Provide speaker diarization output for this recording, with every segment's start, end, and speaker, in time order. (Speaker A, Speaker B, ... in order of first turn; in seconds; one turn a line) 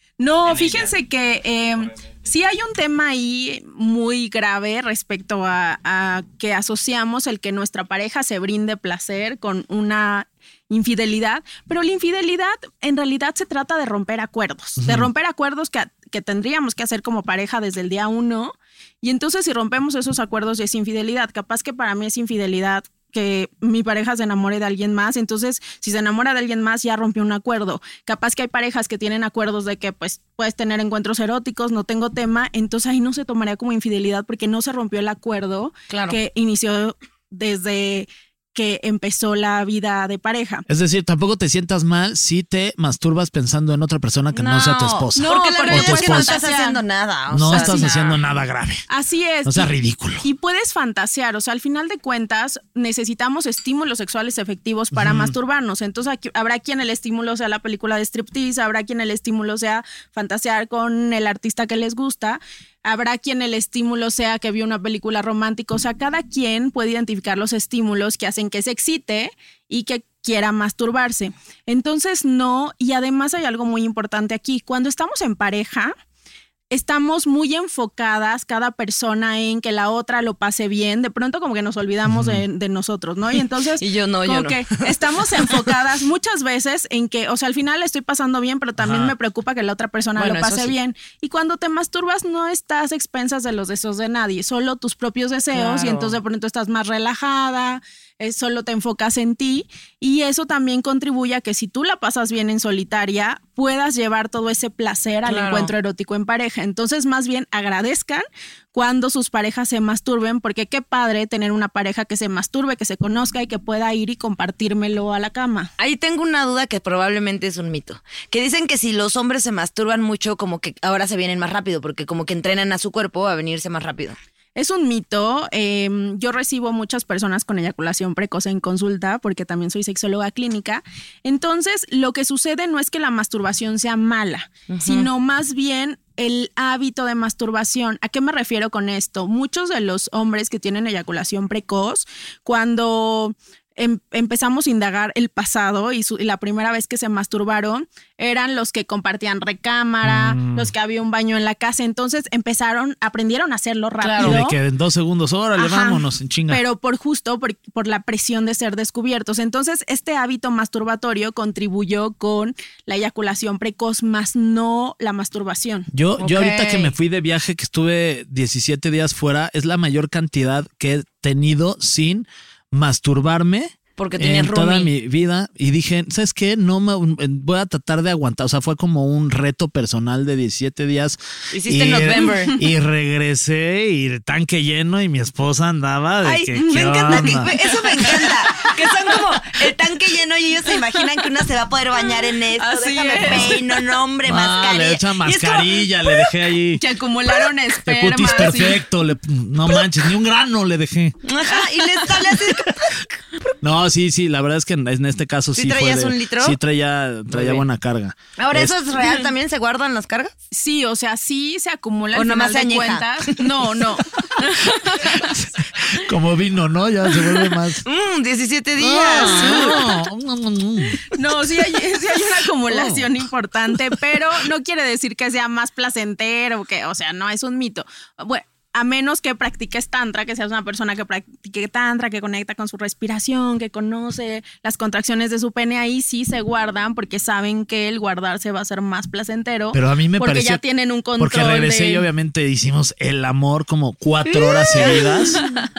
Speaker A: 0.2-40.7
Speaker B: 14.8-15.1
Speaker C: 35.9-36.2
Speaker B: 40.7-46.4
Speaker C: 44.3-48.2
Speaker A: 45.2-46.8
Speaker B: 47.3-48.9
Speaker A: 47.5-47.9
Speaker A: 48.9-75.9
Speaker B: 49.5-50.2
Speaker B: 54.9-55.3
Speaker A: 76.7-115.7
Speaker B: 82.1-82.4
Speaker C: 83.8-85.7
Speaker B: 88.8-89.1
Speaker C: 90.2-90.7
Speaker C: 95.5-96.2
Speaker C: 105.3-105.7
Speaker C: 115.8-124.2
Speaker A: 124.6-154.6
Speaker C: 134.7-135.1
Speaker B: 150.0-150.7
Speaker C: 154.0-154.4
Speaker B: 154.2-156.6
Speaker A: 155.6-165.9
Speaker B: 165.9-187.5
Speaker C: 166.2-166.9
Speaker C: 174.0-174.9
Speaker C: 181.5-182.6
Speaker A: 182.2-182.6
Speaker C: 186.2-196.3
Speaker A: 186.6-188.7
Speaker A: 190.7-191.0
Speaker A: 192.6-193.6
Speaker B: 193.2-193.5
Speaker B: 194.3-196.8
Speaker A: 196.8-198.8
Speaker B: 197.9-201.2
Speaker C: 201.2-203.1
Speaker B: 203.6-208.7
Speaker C: 205.6-206.6
Speaker C: 207.3-207.7
Speaker C: 208.4-210.3
Speaker A: 210.5-215.3
Speaker C: 212.1-213.5
Speaker B: 215.0-217.8
Speaker C: 217.8-219.8
Speaker B: 218.8-221.5
Speaker A: 219.2-219.9
Speaker A: 221.1-242.1
Speaker B: 222.7-223.1
Speaker B: 239.7-240.6
Speaker B: 241.2-245.4
Speaker C: 244.3-245.5
Speaker A: 244.8-245.6